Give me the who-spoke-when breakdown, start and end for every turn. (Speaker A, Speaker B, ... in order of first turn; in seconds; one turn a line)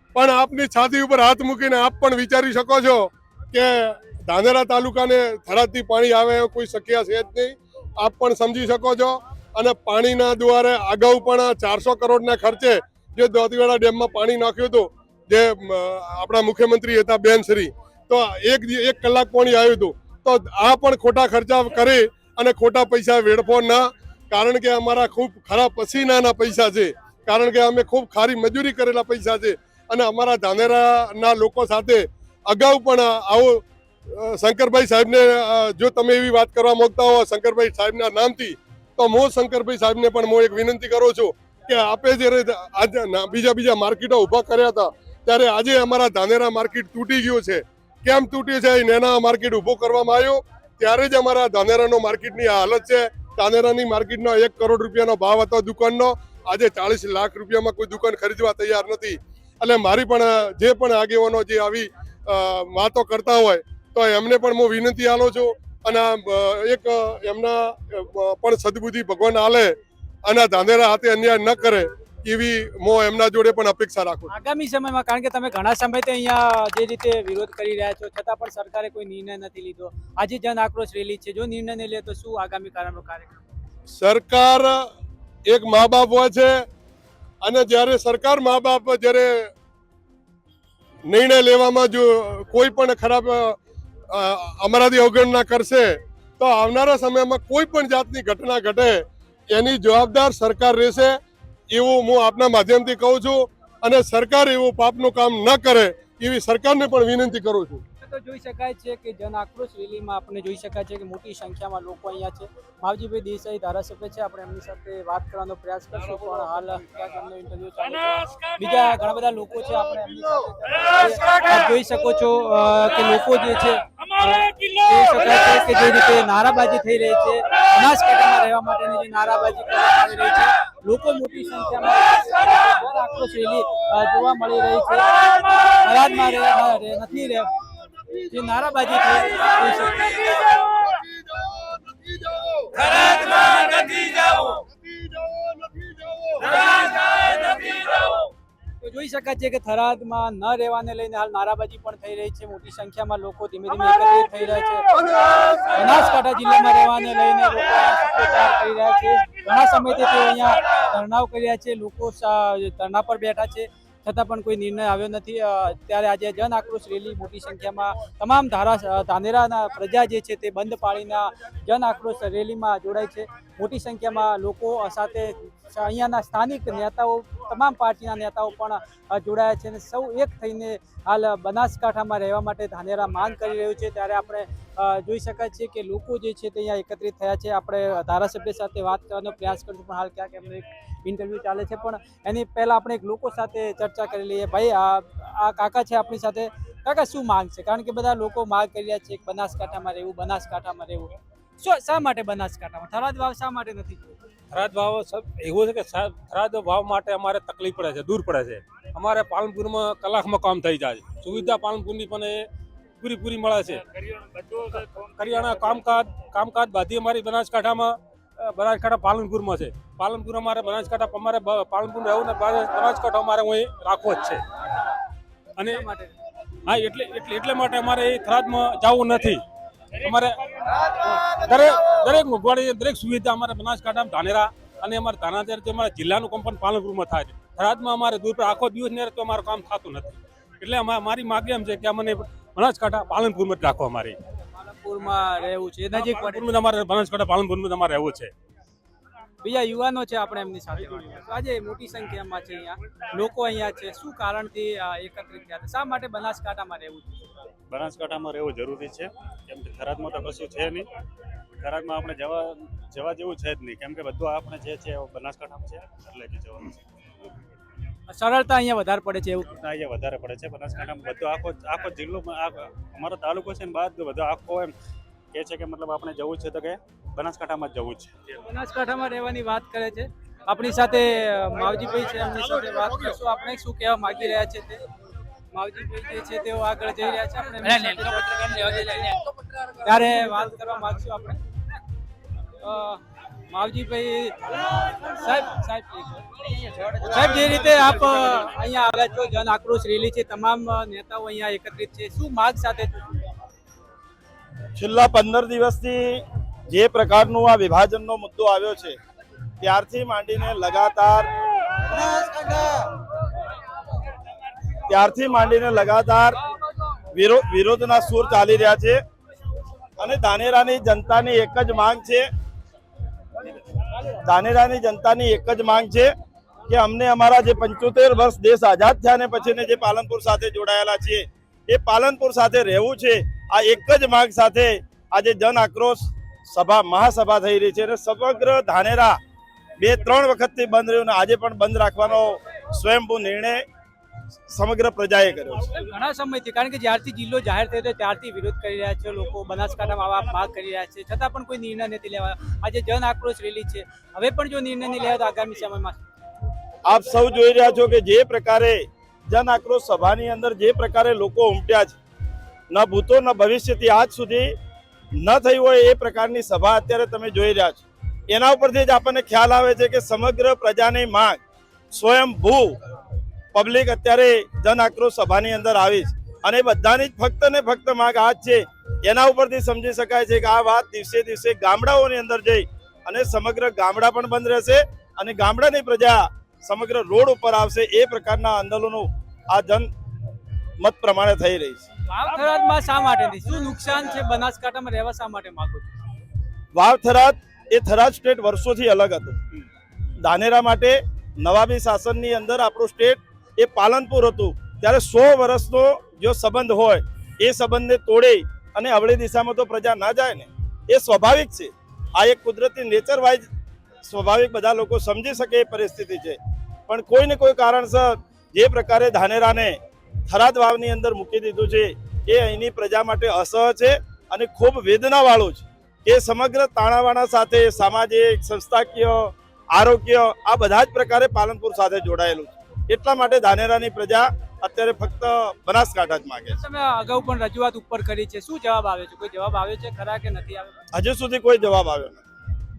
Speaker A: 0.1-74.3
Speaker B: 74.3-83.4
Speaker A: 84.0-84.9
Speaker A: 85.5-86.6
Speaker A: 87.4-89.5
Speaker A: 91.1-93.6
Speaker A: 94.1-101.2
Speaker A: 101.7-107.8
Speaker B: 108.0-137.5
Speaker B: 138.3-140.4
Speaker B: 148.8-155.0
Speaker B: 155.7-204.2
Speaker C: 204.5-212.5
Speaker C: 213.0-224.4
Speaker C: 225.6-225.8
Speaker B: 225.6-226.1
Speaker C: 226.7-229.4
Speaker C: 230.0-230.4
Speaker C: 231.1-244.2
Speaker B: 244.6-246.4
Speaker C: 245.9-248.3
Speaker B: 249.4-257.3
Speaker D: 257.7-260.9
Speaker D: 261.6-266.8
Speaker B: 268.1-269.6
Speaker D: 269.6-274.7
Speaker D: 275.3-278.2
Speaker B: 278.4-284.8
Speaker B: 285.5-289.1
Speaker B: 289.8-291.4
Speaker B: 292.6-296.2
Speaker B: 296.9-303.2
Speaker E: 304.8-309.0
Speaker E: 309.6-311.3
Speaker E: 314.9-316.4
Speaker E: 317.1-319.0
Speaker E: 320.0-322.3
Speaker E: 324.2-326.1
Speaker E: 326.7-339.2
Speaker E: 339.8-343.6
Speaker E: 344.5-345.7
Speaker B: 345.7-356.0
Speaker E: 356.9-361.9
Speaker E: 362.7-364.6
Speaker E: 365.2-371.4
Speaker E: 371.9-372.8
Speaker E: 373.5-389.9
Speaker E: 390.8-391.9
Speaker B: 392.1-395.9
Speaker E: 396.7-399.4
Speaker E: 400.2-413.5
Speaker E: 414.1-419.8
Speaker E: 420.3-436.6
Speaker B: 436.5-440.7
Speaker E: 440.9-442.2